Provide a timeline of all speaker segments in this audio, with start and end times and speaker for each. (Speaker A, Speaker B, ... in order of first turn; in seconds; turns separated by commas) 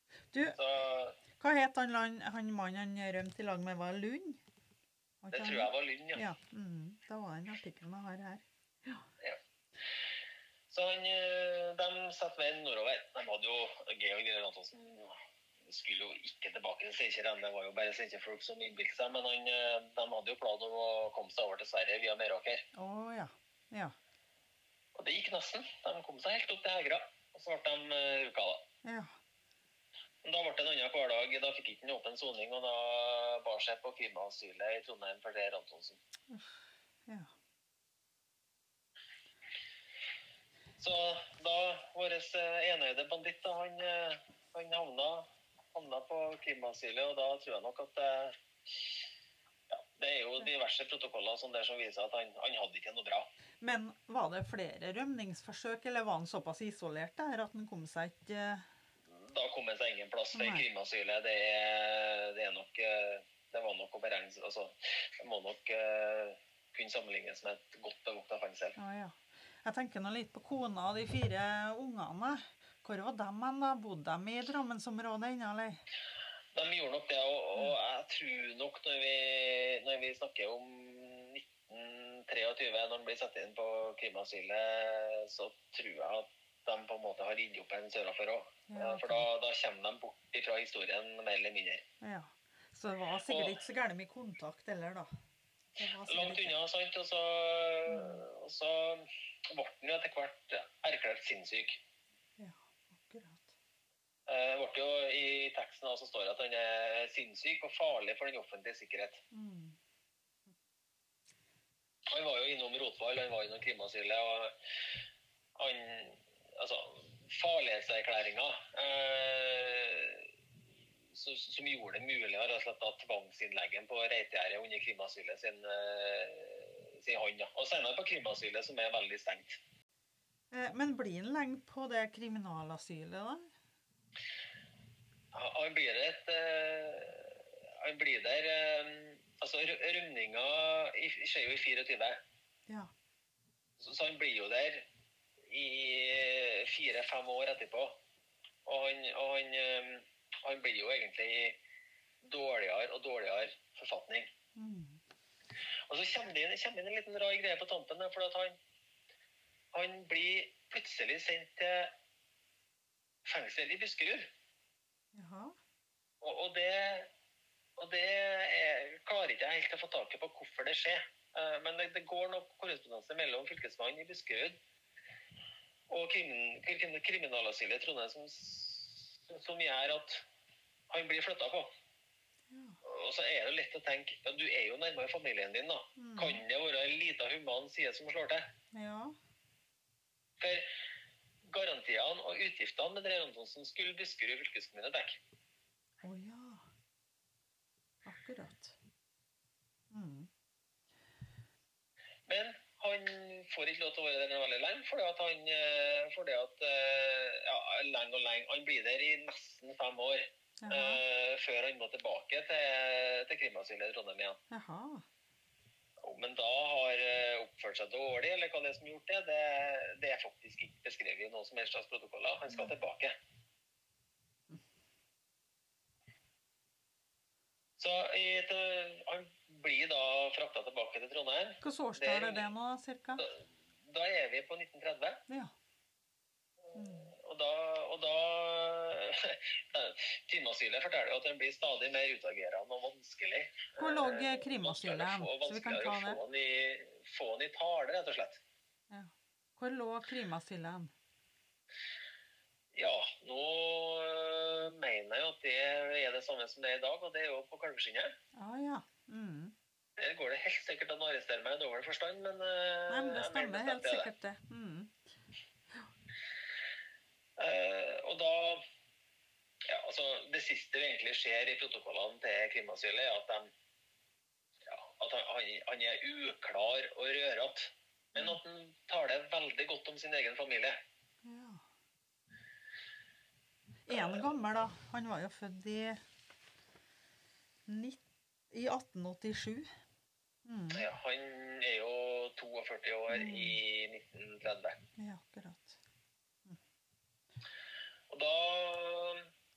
Speaker A: 0.3-0.6, Speaker B: 0.6-1.2, Speaker A: 1.4-4.4, Speaker A: 5.2-9.0, Speaker B: 5.3-6.2, Speaker B: 10.7-22.6, Speaker A: 22.7-24.0, Speaker B: 25.0-28.6, Speaker A: 28.8-29.2, Speaker B: 30.2-36.0, Speaker A: 36.3-37.3, Speaker B: 40.8-48.9, Speaker B: 49.7-53.3, Speaker A: 53.6-58.7, Speaker B: 59.1-68.8, Speaker A: 60.3-60.6, Speaker A: 68.8-75.8, Speaker B: 76.5-91.8, Speaker A: 88.7-89.3, Speaker A: 92.0-95.1, Speaker B: 93.2-93.6, Speaker A: 95.8-96.5, Speaker B: 96.0-101.8, Speaker A: 97.9-98.2, Speaker A: 102.4-103.5, Speaker B: 104.3-109.2, Speaker A: 109.3-109.8, Speaker B: 112.1-114.5, Speaker B: 115.5-120.3, Speaker B: 121.1-129.6, Speaker A: 130.5-133.5, Speaker B: 135.3-142.2, Speaker A: 142.7-142.9, Speaker B: 143.8-144.9, Speaker B: 145.5-148.0, Speaker B: 148.7-151.6, Speaker B: 152.2-154.3, Speaker A: 154.6-155.0, Speaker B: 155.9-158.6, Speaker B: 159.7-161.9, Speaker B: 163.2-164.3, Speaker A: 165.1-165.6, Speaker B: 166.2-167.1, Speaker B: 167.8-174.6, Speaker B: 175.9-180.3, Speaker B: 180.9-181.7, Speaker A: 182.5-182.8, Speaker B: 182.8-188.5, Speaker A: 186.0-186.4, Speaker A: 188.7-189.2, Speaker B: 190.4-190.7, Speaker B: 191.5-195.2, Speaker A: 196.0-196.7, Speaker A: 198.1-198.8, Speaker A: 199.9-200.3, Speaker B: 202.3-214.4, Speaker A: 210.6-211.0, Speaker A: 214.5-215.1, Speaker B: 216.0-223.1, Speaker B: 227.8-232.5, Speaker A: 231.6-233.2, Speaker B: 233.2-235.2, Speaker A: 235.3-235.5, Speaker B: 236.7-248.4, Speaker A: 236.8-237.1, Speaker A: 243.8-246.2, Speaker A: 248.9-250.9, Speaker B: 252.7-258.1, Speaker A: 258.4-259.6, Speaker B: 260.0-264.1, Speaker A: 262.9-265.0, Speaker B: 267.4-268.6, Speaker B: 269.6-273.5, Speaker B: 274.7-280.8, Speaker A: 281.2-281.6, Speaker A: 283.9-286.0, Speaker B: 283.9-284.3, Speaker A: 287.7-289.7, Speaker A: 290.4-290.9, Speaker B: 290.7-294.8, Speaker A: 293.1-293.6, Speaker A: 295.0-295.8, Speaker B: 298.1-299.3